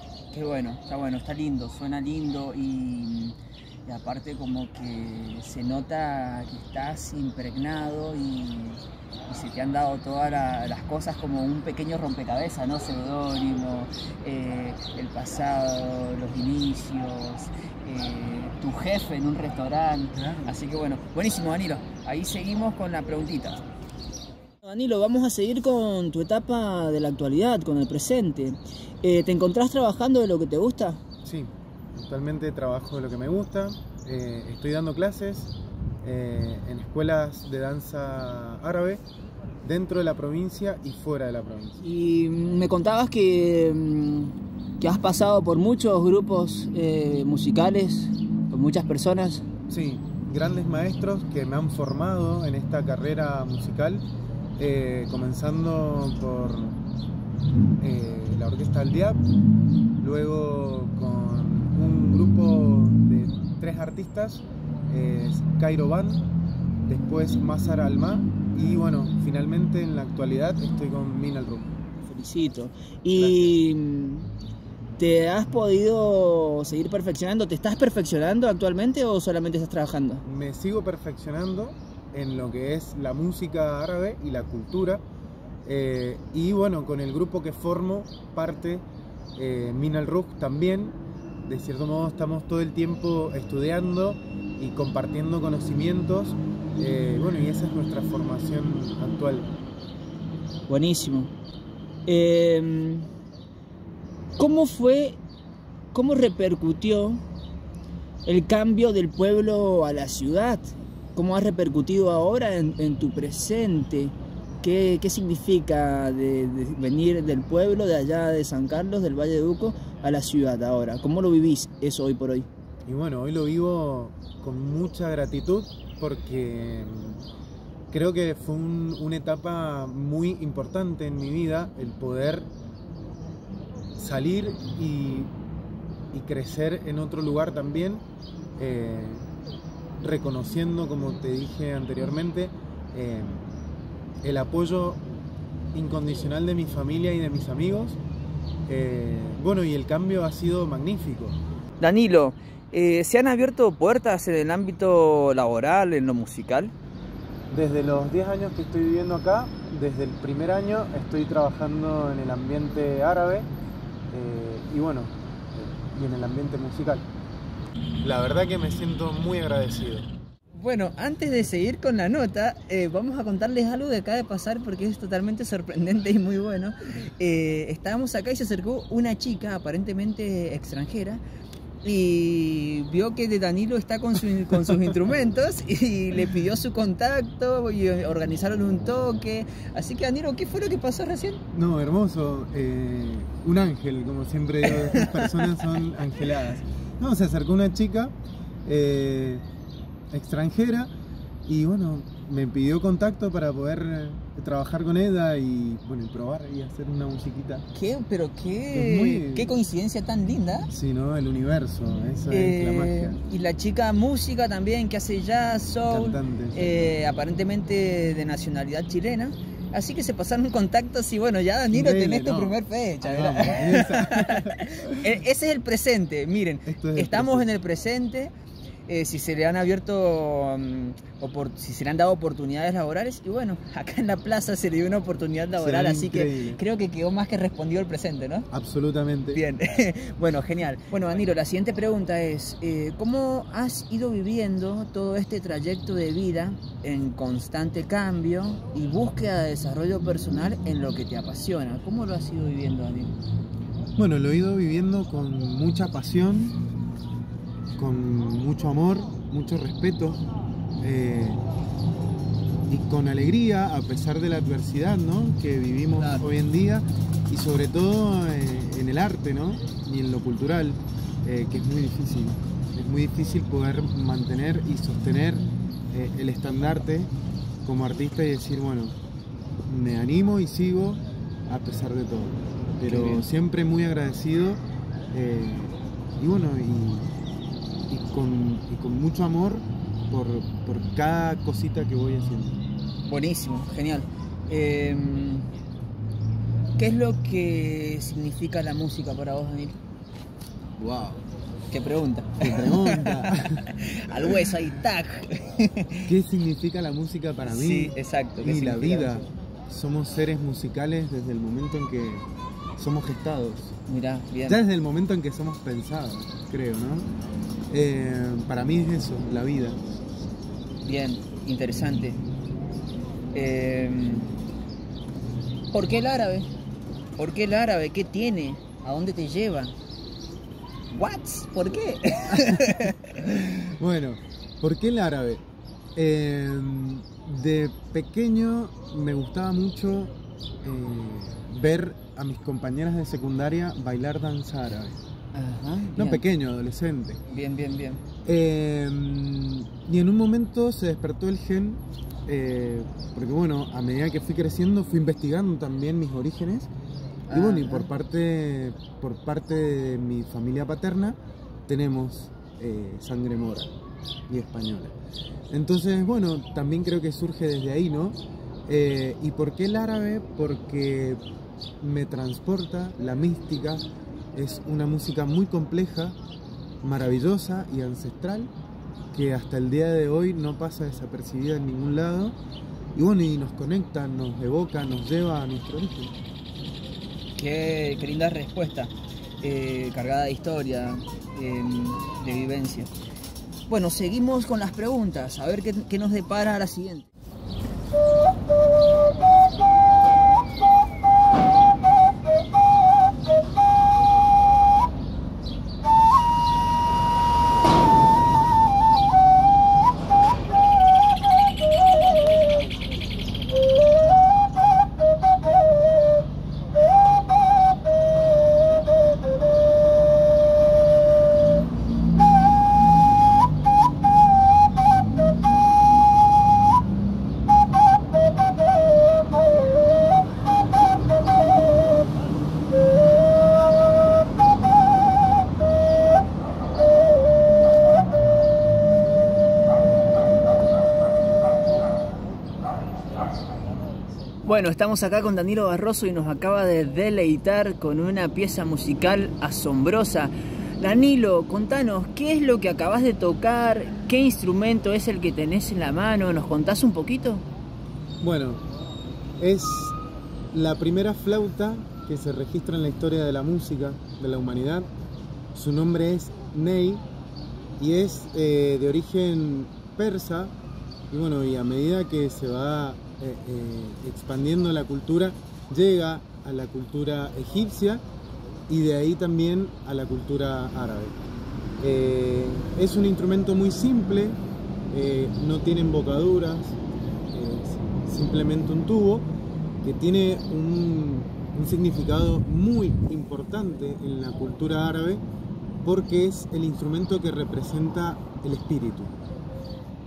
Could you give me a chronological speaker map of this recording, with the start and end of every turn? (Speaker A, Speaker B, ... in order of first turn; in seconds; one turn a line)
Speaker A: 0.3-23.6
Speaker B: 20.1-20.6
Speaker A: 24.6-31.0
Speaker B: 31.2-39.0
Speaker B: 39.6-41.8
Speaker A: 41.8-49.5
Speaker B: 49.7-54.0
Speaker B: 54.6-56.8
Speaker B: 57.8-59.2
Speaker B: 60.0-66.2
Speaker B: 66.9-71.8
Speaker A: 72.1-74.3
Speaker B: 73.1-73.6
Speaker A: 75.0-80.2
Speaker B: 80.2-85.0
Speaker B: 85.6-88.8
Speaker B: 89.3-99.5
Speaker A: 100.7-101.3
Speaker A: 102.1-103.1
Speaker A: 104.4-105.2
Speaker A: 105.9-107.2
Speaker A: 108.2-122.5
Speaker B: 122.8-127.2
Speaker B: 127.9-132.5
Speaker B: 134.0-135.3
Speaker B: 136.1-138.0
Speaker B: 138.6-139.3
Speaker B: 140.0-143.4
Speaker B: 144.2-145.0
Speaker B: 145.7-148.0
Speaker B: 148.7-151.4
Speaker A: 151.8-156.7
Speaker B: 157.5-163.5
Speaker B: 164.1-167.1
Speaker B: 168.0-170.1
Speaker A: 170.5-181.2
Speaker A: 181.8-191.4
Speaker B: 191.5-198.1
Speaker A: 194.6-195.6
Speaker B: 198.6-199.4
Speaker B: 200.1-200.9
Speaker B: 201.4-207.7
Speaker A: 207.7-210.7
Speaker B: 208.7-209.5
Speaker B: 210.7-213.2
Speaker A: 212.3-228.3
Speaker B: 215.9-216.9
Speaker B: 221.7-225.1
Speaker B: 226.7-227.5
Speaker A: 228.9-238.5
Speaker B: 235.6-236.6
Speaker B: 238.5-239.4
Speaker A: 239.3-253.2
Speaker B: 254.0-256.6
Speaker B: 257.8-260.2
Speaker B: 260.8-261.4
Speaker B: 262.6-277.1
Speaker A: 266.0-266.2
Speaker B: 277.6-278.9
Speaker B: 279.6-287.1
Speaker A: 282.8-283.3
Speaker B: 287.9-292.6
Speaker A: 293.0-295.5
Speaker A: 296.8-299.7
Speaker B: 300.8-301.2
Speaker A: 301.7-306.1
Speaker B: 302.4-304.6
Speaker B: 306.1-312.3
Speaker A: 307.4-309.1
Speaker B: 312.8-313.8
Speaker A: 313.9-314.6
Speaker B: 314.4-317.1
Speaker B: 317.7-320.0
Speaker A: 320.8-322.2
Speaker A: 323.3-324.3
Speaker A: 325.7-326.5
Speaker A: 327.2-329.7
Speaker A: 330.9-333.7
Speaker B: 332.3-332.9
Speaker B: 333.6-335.4
Speaker B: 335.9-345.0
Speaker A: 345.3-346.2
Speaker B: 345.9-347.2
Speaker A: 347.3-348.0
Speaker B: 348.2-356.7
Speaker A: 357.3-357.9
Speaker B: 357.3-363.7
Speaker B: 364.3-364.9
Speaker B: 365.5-371.2
Speaker B: 371.8-376.2
Speaker B: 376.8-378.5
Speaker B: 379.1-382.3
Speaker B: 382.9-386.1
Speaker A: 387.4-392.9
Speaker A: 393.7-397.1
Speaker A: 444.4-457.4
Speaker B: 458.2-458.6
Speaker B: 459.4-460.0
Speaker B: 460.5-464.9
Speaker B: 465.5-467.0
Speaker B: 467.8-470.5
Speaker B: 471.1-478.0
Speaker B: 478.7-481.2
Speaker B: 481.8-484.4
Speaker B: 484.9-486.8
Speaker B: 487.3-489.3
Speaker B: 489.8-495.2
Speaker B: 495.8-499.1